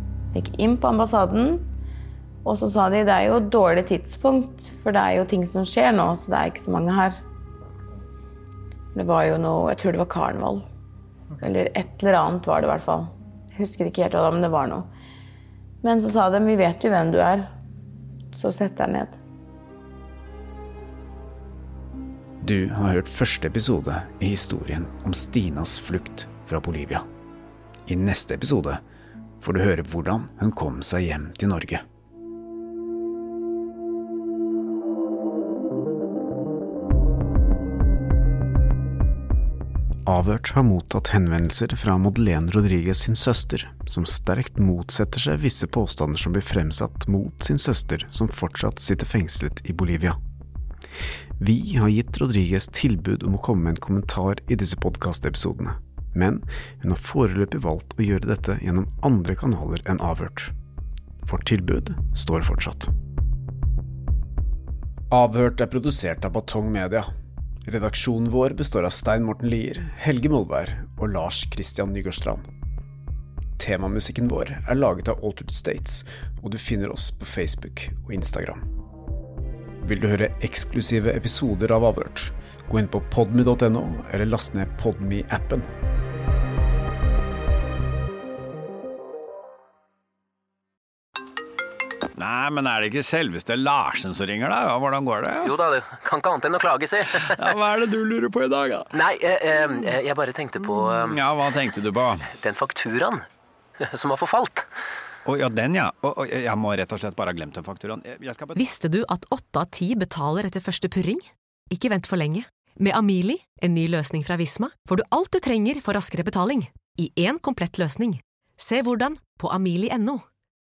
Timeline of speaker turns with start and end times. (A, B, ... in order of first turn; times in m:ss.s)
0:00.3-0:01.7 A
0:02.4-0:07.2 A
0:08.9-0:10.7 A
0:11.4-0:14.9 A
0:15.8-0:17.5 A
0:18.4-0:19.2 A
0:22.4-0:27.1 B
0:27.9-0:28.8 B
0:29.4-0:31.8 B
0:40.1-0:50.2 B
0:51.4-1:00.5 B
1:01.2-1:02.9 B
1:05.1-1:07.1 B
1:07.7-1:12.4 B
1:13.6-1:18.6 B
1:19.8-1:25.7 B
1:32.2-1:35.6 C
1:35.4-1:37.5 D
1:37.4-1:38.9 C
1:38.9-1:41.2 D
1:41.1-1:42.3 C
1:42.3-1:43.3 D
1:43.8-1:44.7 D
1:45.3-1:48.6 C
1:48.6-2:00.2 E